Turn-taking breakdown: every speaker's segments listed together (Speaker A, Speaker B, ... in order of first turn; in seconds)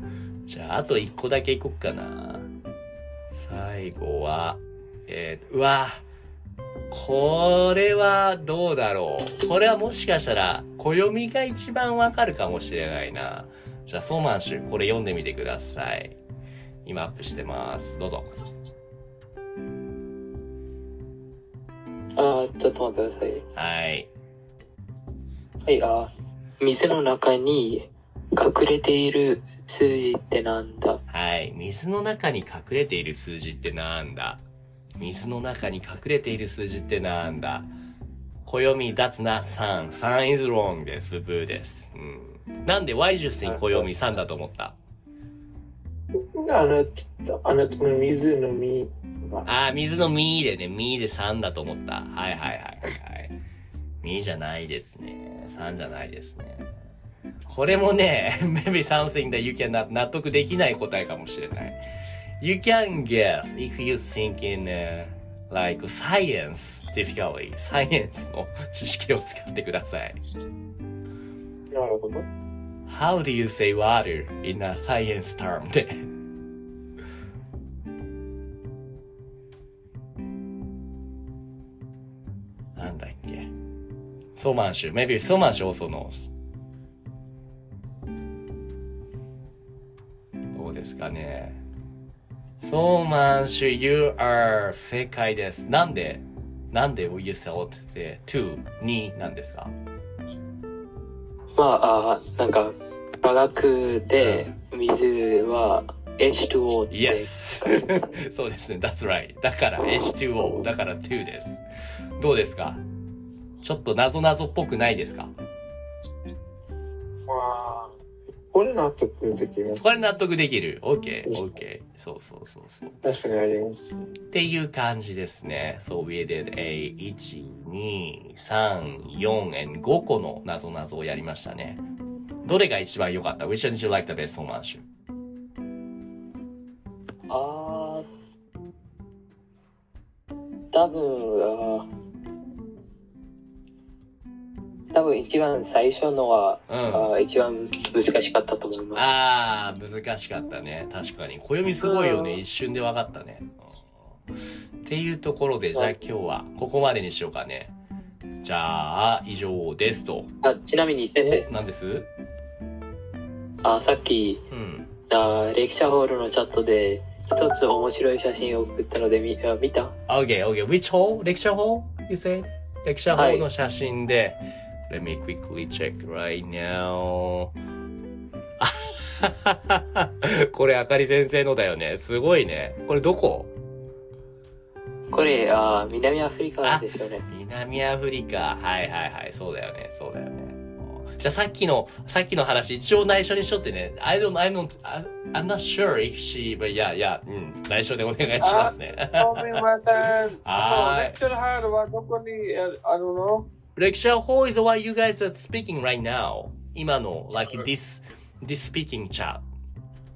Speaker A: 0.5-2.5, 3.3-6.0, 6.9-16.2, 16.8-18.3, 23.5-24.1, 31.1-34.4, 35.0-37.7, 38.4-44.8, 49.4-53.4, 54.0-56.7, 57.5-61.8, 62.4-70.2, 72.9-76.0, 82.8-83.5, 84.3-86.3, 90.5-91.6, 92.6-99.7, 104.2-104.5, 106.9-111.6, 112.2-112.8, 113.6-115.3, 119.7-123.0, 124.3-131.8, 132.4-134.8, 146.7-147.1, 148.9-153.9, 154.8-157.7, 158.4-160.3, 161.2-162.1, 164.5-164.9, 170.1-177.5, 178.6-183.5, 186.6-199.7, 200.3-201.2, 203.7-209.5
Speaker B: 22.1-23.4, 25.6-31.0, 101.5-108.0, 137.3-138.1, 140.7-141.9, 144.9-149.2, 160.4-161.4, 163.6-164.4, 165.1-169.9, 173.1-173.4, 185.1-187.2
Speaker C: 43.4-44.0, 46.1-49.5, 71.7-72.2, 117.3-117.9, 118.5-119.9, 121.2-121.5, 123.0-124.0
Speaker D: 151.8-152.4, 198.4-203.5